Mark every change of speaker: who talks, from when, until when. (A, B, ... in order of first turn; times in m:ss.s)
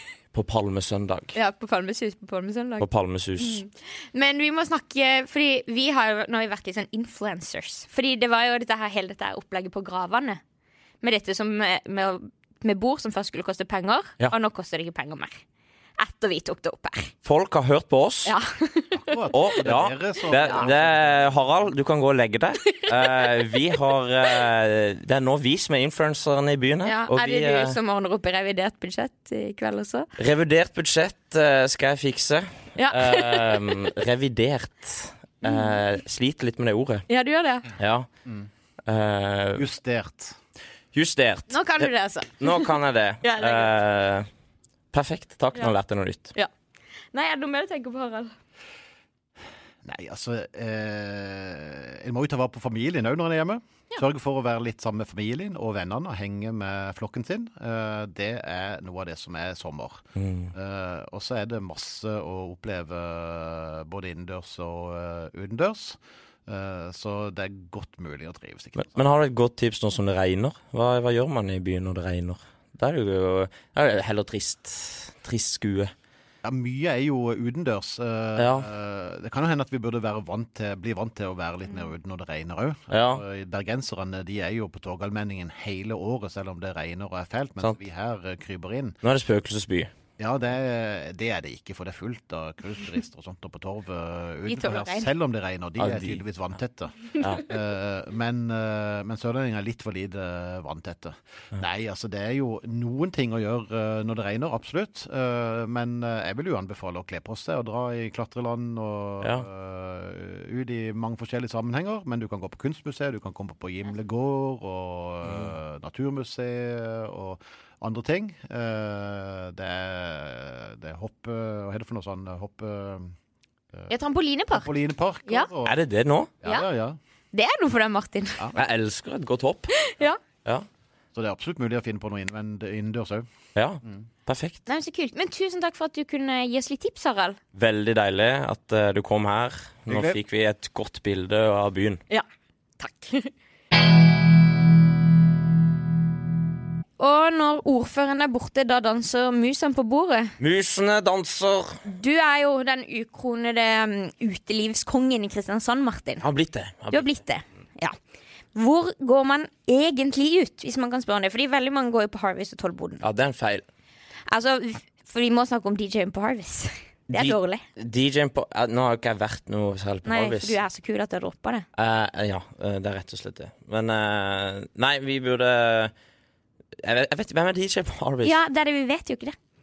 0:00.3-0:01.3 A
0:01.3-0:10.4 B
0:02.8-0:03.6 A
0:11.0-0:15.4 B
0:16.0-0:17.1 B
0:17.2-0:18.3 A
0:18.2-0:19.3 B
0:18.9-0:21.3 C
0:19.3-0:27.8 A
0:20.3-0:20.6 B
0:22.6-0:23.3 B
0:26.8-0:30.1 B
0:30.2-0:37.0 A
0:32.8-0:33.9 B
0:35.4-0:35.8 B
0:37.1-0:37.7 B
0:37.8-0:38.1 A
0:38.9-0:39.6 A
0:39.6-0:40.4 C
0:40.9-0:44.3 A
0:41.5-0:42.7 B
0:43.2-0:43.7 B
0:44.9-0:46.3 A
0:47.1-0:48.3 B
0:49.8-1:09.0 C
1:00.2-1:00.5 A
1:08.8-1:15.9 A
1:16.4-1:29.0 C
1:18.4-1:18.7 A
1:22.9-1:23.2 A
1:29.0-1:29.9 A
1:30.2-2:03.1 C
1:34.5-1:35.1 B
1:35.8-1:36.2 A
1:37.2-1:37.4 A
1:55.2-1:55.5 A
2:03.9-2:04.7 B
2:04.5-2:05.8 C
2:05.6-2:06.3 A
2:06.4-2:07.0 C
2:07.3-2:08.4 B
2:08.5-2:09.7 A
2:09.8-2:10.2 B
2:11.1-2:13.2 C
2:13.5-2:14.6 A
2:14.7-2:17.4 B
2:17.5-2:22.0 A
2:19.9-2:20.2 C
2:22.8-2:23.3 B
2:27.0-2:30.3 B
2:30.4-2:31.8 A
2:31.8-2:36.2 B
2:36.2-2:37.2 A
2:36.9-2:38.0 B
2:38.5-2:43.0 B
2:43.0-2:43.6 A
2:44.3-2:47.6 B
2:47.1-2:50.6 A
2:50.0-2:51.6 B
2:51.8-2:55.9 A
2:56.8-2:58.3 A
2:58.2-2:59.4 B